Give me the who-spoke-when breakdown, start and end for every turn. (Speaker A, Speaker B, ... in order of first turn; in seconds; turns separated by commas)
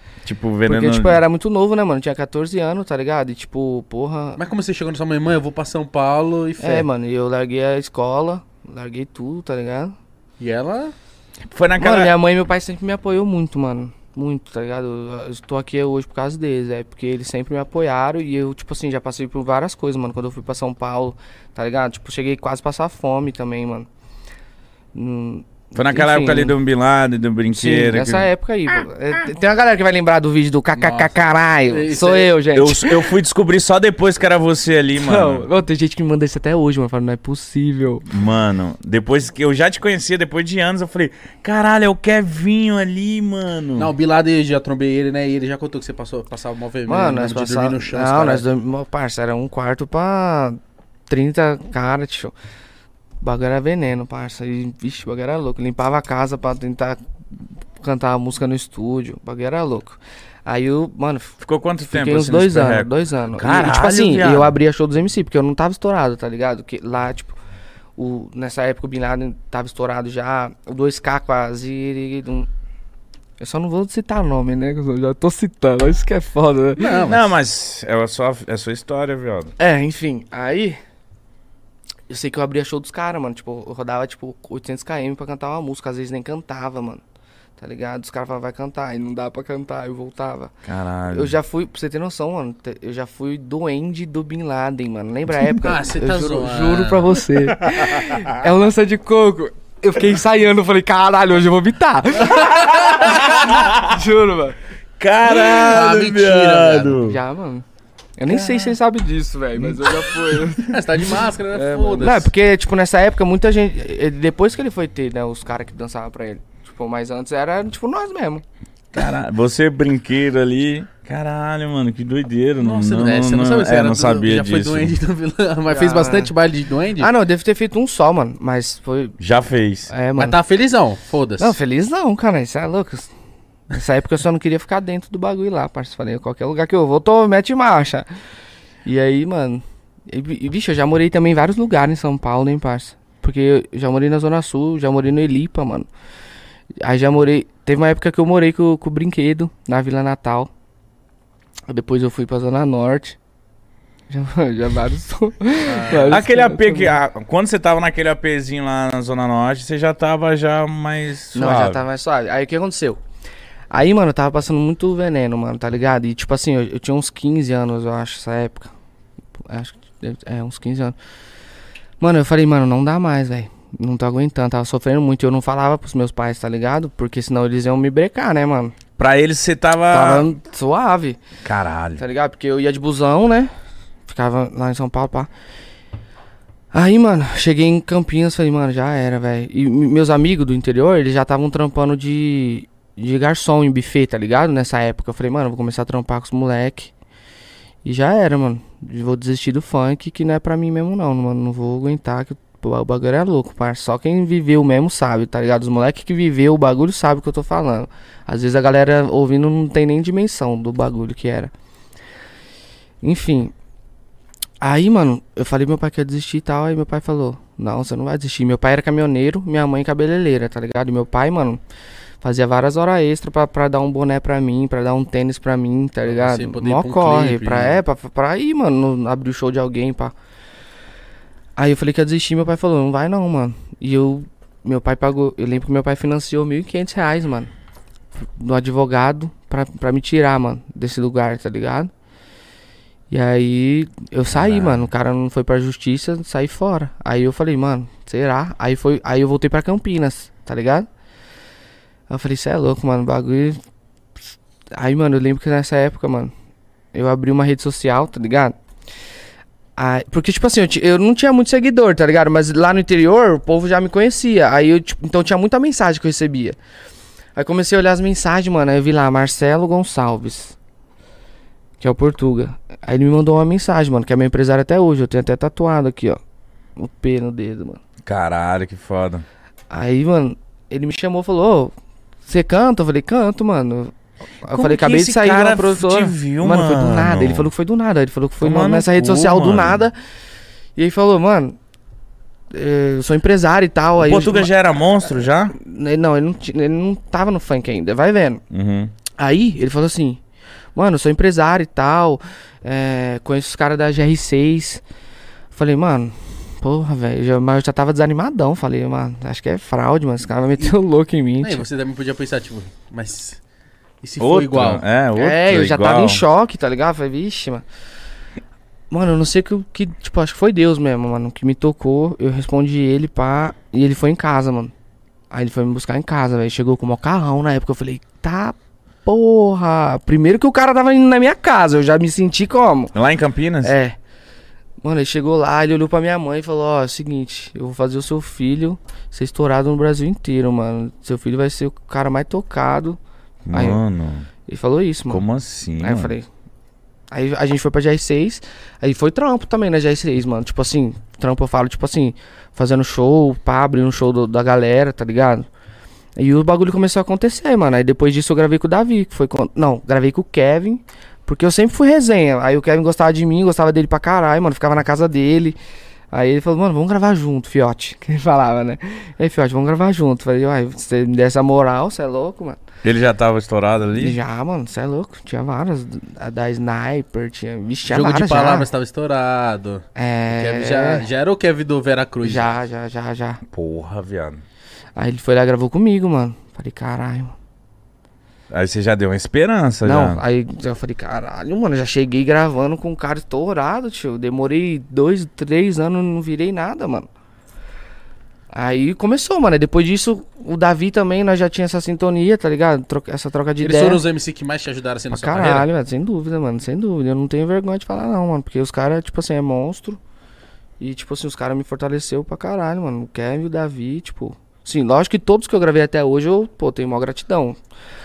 Speaker A: 0.2-1.2, Speaker B: 0.6-4.4, Speaker C: 4.4-6.9, Speaker B: 6.6-9.9, Speaker C: 10.4-10.9, Speaker A: 11.5-12.1, Speaker B: 11.8-23.9, Speaker B: 24.9-26.6, Speaker A: 25.7-28.3, Speaker B: 27.5-33.1, Speaker C: 30.8-31.1, Speaker C: 31.7-32.3, Speaker A: 32.5-35.5, Speaker B: 34.9-38.0, Speaker A: 38.1-43.9, Speaker C: 43.8-48.4, Speaker B: 46.9-52.3, Speaker B: 53.2-57.0, Speaker B: 57.8-61.3, Speaker A: 61.4-64.5, Speaker B: 61.9-67.4, Speaker B: 68.0-72.5, Speaker B: 73.4-77.0, Speaker C: 76.8-77.3, Speaker A: 77.0-79.5, Speaker B: 79.6-80.8, Speaker B: 82.1-87.0, Speaker B: 87.6-90.5, Speaker A: 90.6-91.3, Speaker B: 91.1-104.6, Speaker C: 95.6-97.2, Speaker A: 102.8-103.8, Speaker A: 105.0-107.2, Speaker C: 105.2-107.0, Speaker B: 107.0-107.6, Speaker B: 108.2-118.4, Speaker A: 108.3-108.7, Speaker A: 109.6-110.5, Speaker C: 110.6-112.3, Speaker A: 118.9-124.9, Speaker C: 122.6-127.1, Speaker B: 125.7-126.3, Speaker B: 127.0-129.2, Speaker A: 129.2-129.9, Speaker B: 129.9-130.4, Speaker C: 130.2-131.6, Speaker B: 131.4-133.1, Speaker B: 133.7-138.1, Speaker B: 138.8-145.9, Speaker B: 146.8-150.5, Speaker B: 151.7-153.2, Speaker B: 154.1-156.9, Speaker C: 155.7-156.2, Speaker A: 155.9-161.8, Speaker B: 161.3-163.0, Speaker B: 163.7-168.7, Speaker B: 169.5-170.9, Speaker B: 172.0-178.7, Speaker A: 179.0-180.3, Speaker B: 179.9-181.2, Speaker A: 181.4-182.0, Speaker B: 182.0-183.5, Speaker B: 184.1-185.3, Speaker B: 186.7-196.9, Speaker B: 197.8-211.5, Speaker B: 213.0-213.5, Speaker B: 214.6-221.6, Speaker B: 222.2-230.1, Speaker C: 226.1-227.8, Speaker B: 231.6-237.5, Speaker B: 238.2-241.9, Speaker B: 243.1-250.9, Speaker A: 244.3-244.9, Speaker B: 252.1-253.6, Speaker B: 254.7-256.3, Speaker B: 256.9-258.5, Speaker B: 259.8-266.6, Speaker B: 267.4-270.6, Speaker B: 271.8-276.2, Speaker B: 276.8-277.8, Speaker A: 278.1-279.2, Speaker B: 279.7-281.7, Speaker B: 282.2-290.0, Speaker A: 284.5-287.5, Speaker A: 288.4-289.9, Speaker B: 290.8-291.6, Speaker B: 292.5-294.5, Speaker A: 294.0-295.5, Speaker B: 295.4-298.4, Speaker A: 298.5-298.9, Speaker B: 299.2-300.2, Speaker B: 300.7-304.8, Speaker B: 305.5-311.6, Speaker C: 311.4-313.4, Speaker C: 314.0-314.8, Speaker A: 314.2-316.2, Speaker B: 315.1-317.6, Speaker B: 318.9-324.7, Speaker B: 325.3-332.9, Speaker A: 332.9-333.7, Speaker B: 333.6-334.0, Speaker B: 334.8-343.0, Speaker A: 343.4-344.3, Speaker B: 343.5-343.8, Speaker B: 344.5-345.2, Speaker A: 345.1-346.1, Speaker B: 345.8-346.3, Speaker B: 347.1-355.4, Speaker B: 356.2-365.6, Speaker B: 366.1-372.6, Speaker A: 372.8-374.2, Speaker B: 373.9-378.7, Speaker C: 377.8-382.5, Speaker B: 379.9-381.0, Speaker B: 382.2-383.4, Speaker A: 383.5-384.4, Speaker B: 384.9-387.3, Speaker A: 388.5-390.2, Speaker B: 389.8-397.1, Speaker B: 398.5-404.0, Speaker C: 403.6-405.7, Speaker B: 405.1-410.0, Speaker B: 410.8-417.6